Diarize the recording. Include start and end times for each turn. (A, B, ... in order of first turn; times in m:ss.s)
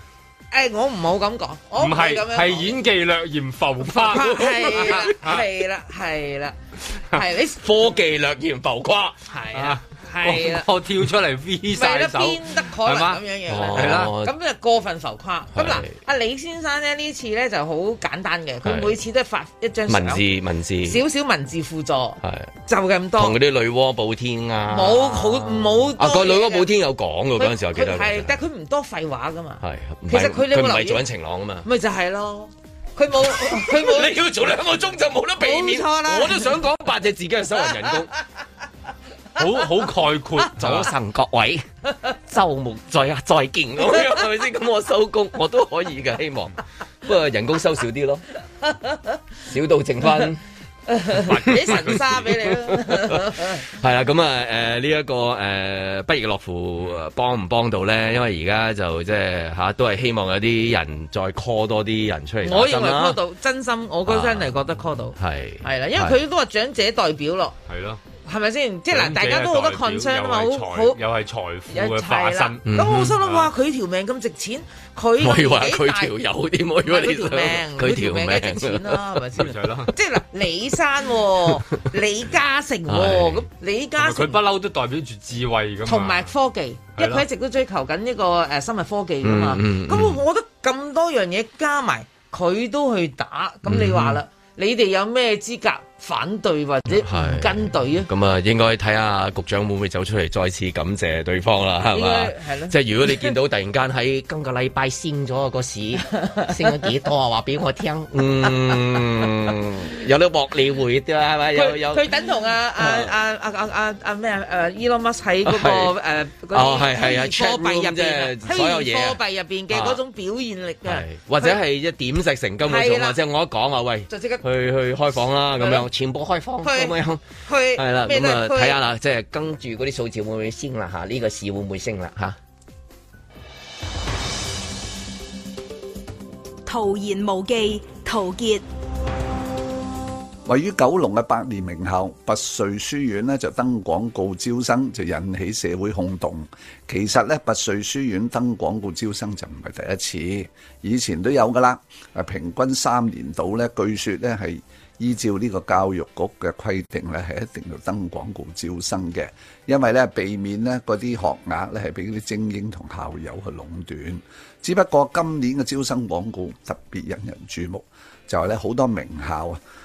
0:00.5-0:02.8 A
0:01.8-0:05.4 B
0:03.8-0:06.6 A
0:04.2-0:05.1 C
0:07.1-0:07.6 A
0:07.6-0:09.2 C
0:09.3-0:10.7 A
0:09.5-0:14.1 B
0:11.7-0:20.2 A
0:13.5-0:14.3 C
0:15.5-0:16.0 C
0:18.6-0:19.0 C
0:19.9-0:21.0 C
0:20.8-0:23.4 A
0:22.2-0:22.5 C
0:23.2-0:28.4 C
0:24.7-0:26.7 A
0:27.4-0:31.0 A
0:29.6-0:31.7 C
0:31.6-0:34.2 A
0:33.2-0:38.1 C
0:35.4-0:36.6 A
0:39.4-0:40.9 B
0:40.5-0:41.6 C
0:42.2-0:48.2 C
0:49.4-0:50.4 C
0:50.9-0:53.6 A
0:51.3-0:52.3 B
0:52.8-1:03.2 C
1:02.4-1:07.6 A
1:04.0-1:04.5 C
1:05.2-1:06.2 C
1:07.7-1:08.0 B
1:08.2-1:11.0 A
1:08.9-1:13.5 B
1:11.7-1:16.1 A
1:12.6-1:13.2 C
1:15.2-1:19.2 C
1:16.8-1:24.4 A
1:19.4-1:19.9 B
1:22.9-1:23.4 C
1:24.0-1:26.3 B
1:25.8-1:38.1 A
1:27.0-1:27.2 B
1:29.2-1:30.2 C
1:33.6-1:34.2 C
1:37.0-1:52.1 C
1:41.9-1:43.3 A
1:51.5-2:01.6 A
1:52.8-1:53.1 C
1:55.4-1:55.9 C
1:56.5-1:59.2 C
1:59.7-2:00.0 C
2:00.8-2:07.2 C
2:02.6-2:03.2 A
2:04.1-2:04.4 A
2:05.6-2:05.8 A
2:06.6-2:08.8 A
2:07.7-2:12.4 C
2:16.6-2:18.6 D
2:20.4-2:49.6 E